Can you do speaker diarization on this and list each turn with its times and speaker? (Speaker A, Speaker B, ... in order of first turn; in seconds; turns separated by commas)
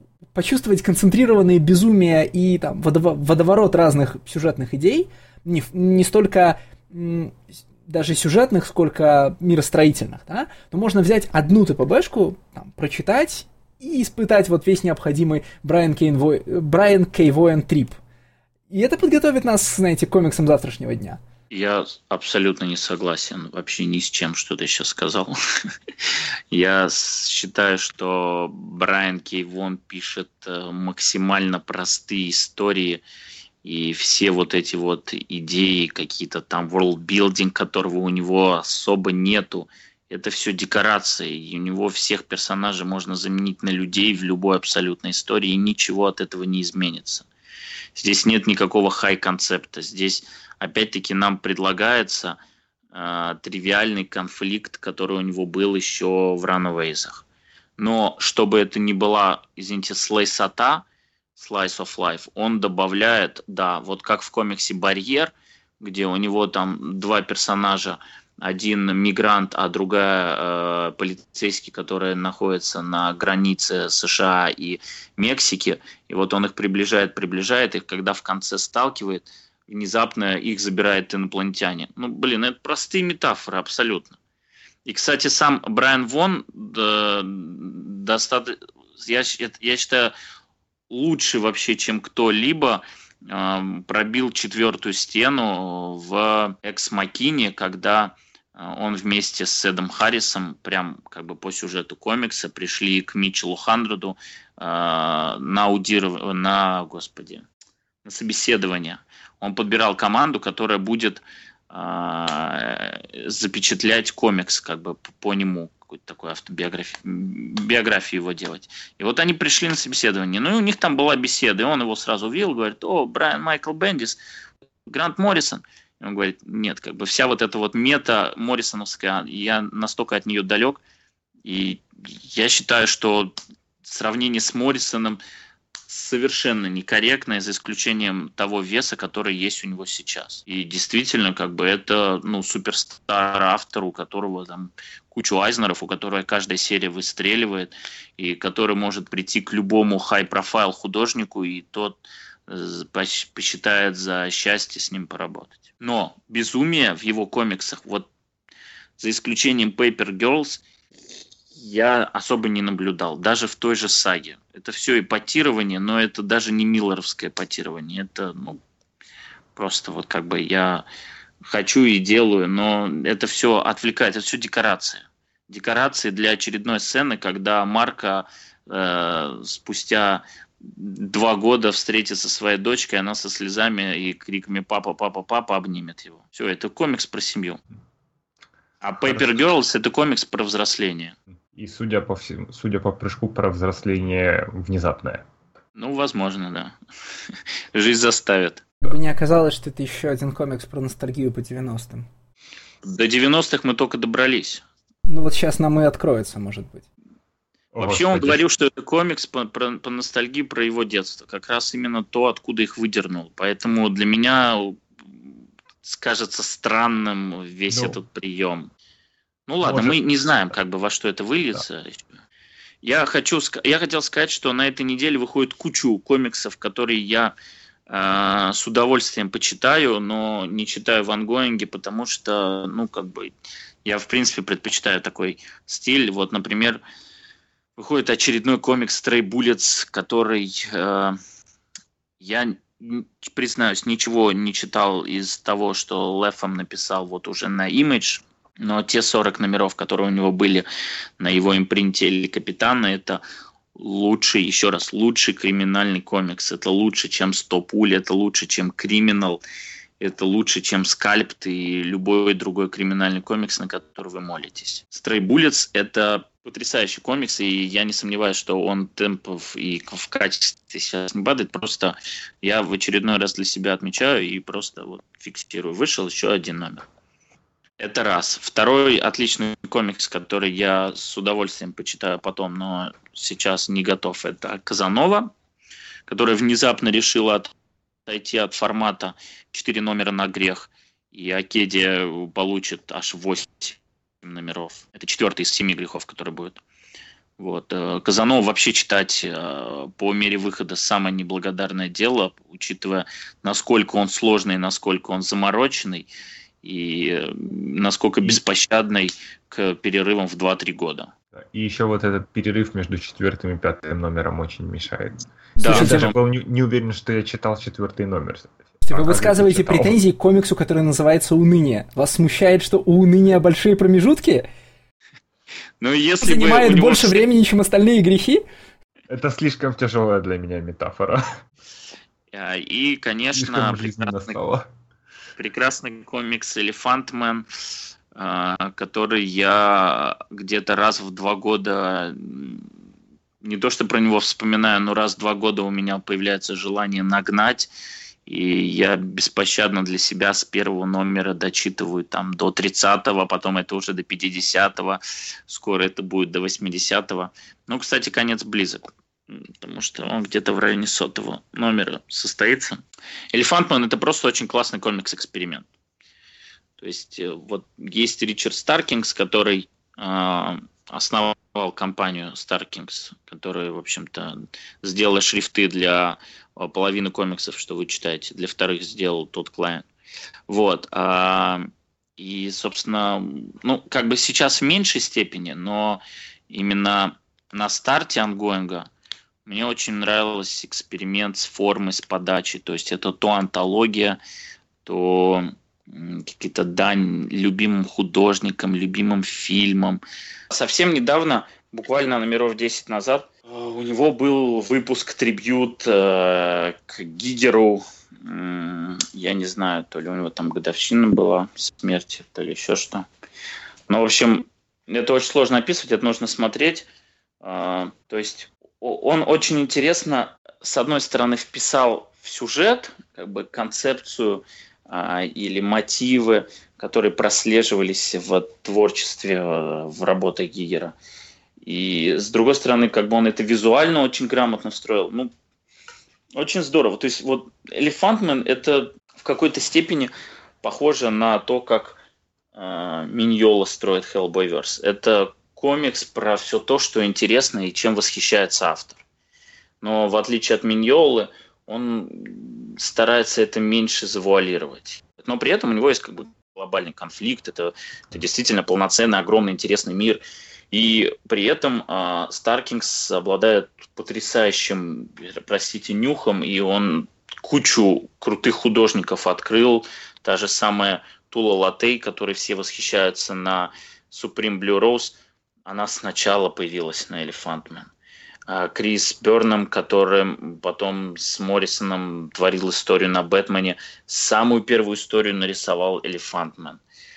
Speaker A: 0.3-18.0, Speaker A: 18.7-21.2, Speaker B: 21.5-33.0, Speaker B: 33.6-47.3, Speaker B: 48.0-52.4, Speaker B: 52.9-57.2, Speaker B: 57.8-60.8, Speaker B: 61.4-84.2, Speaker B: 84.9-90.1, Speaker B: 90.9-107.4, Speaker B: 108.0-124.2, Speaker B: 124.9-130.8, Speaker B: 131.4-135.2, Speaker B: 135.9-158.1, Speaker B: 159.0-160.6, Speaker B: 161.5-168.6, Speaker B: 169.6-170.8, Speaker B: 171.4-187.6, Speaker B: 188.8-191.2, Speaker C: 191.5-195.2, Speaker B: 195.8-196.8, Speaker B: 197.3-198.7, Speaker A: 198.8-202.1, Speaker B: 202.8-204.6, Speaker A: 205.1-206.9, Speaker C: 207.7-208.4, Speaker B: 207.8-218.7, Speaker C: 217.7-218.0, Speaker B: 219.5-222.2, Speaker C: 219.6-220.0, Speaker B: 222.8-227.3, Speaker B: 227.9-233.3, Speaker B: 233.8-236.8, Speaker B: 237.8-241.2, Speaker B: 242.2-250.7, Speaker B: 251.2-253.2, Speaker B: 253.8-259.4, Speaker B: 260.0-276.8, Speaker B: 277.8-285.3, Speaker B: 286.1-287.5, Speaker B: 288.1-296.6, Speaker B: 297.4-306.1, Speaker B: 306.6-311.1, Speaker C: 311.3-320.0, Speaker B: 315.6-316.2, Speaker A: 315.6-316.1, Speaker A: 318.8-324.5, Speaker B: 325.8-327.2, Speaker A: 326.2-328.4, Speaker C: 329.1-331.4, Speaker B: 332.3-334.4, Speaker C: 333.4-334.7, Speaker B: 335.4-337.5, Speaker B: 338.1-342.7, Speaker B: 343.4-347.7, Speaker B: 348.3-362.8, Speaker B: 363.3-365.7, Speaker B: 366.8-379.9, Speaker B: 380.5-388.9, Speaker B: 389.5-394.2, Speaker B: 394.9-413.1, Speaker B: 413.9-416.9, Speaker B: 417.4-430.9, Speaker B: 431.6-435.3, Speaker B: 436.4-440.1, Speaker B: 440.6-442.0, Speaker B: 442.6-449.0, Speaker B: 449.8-477.9, Speaker B: 478.5-486.8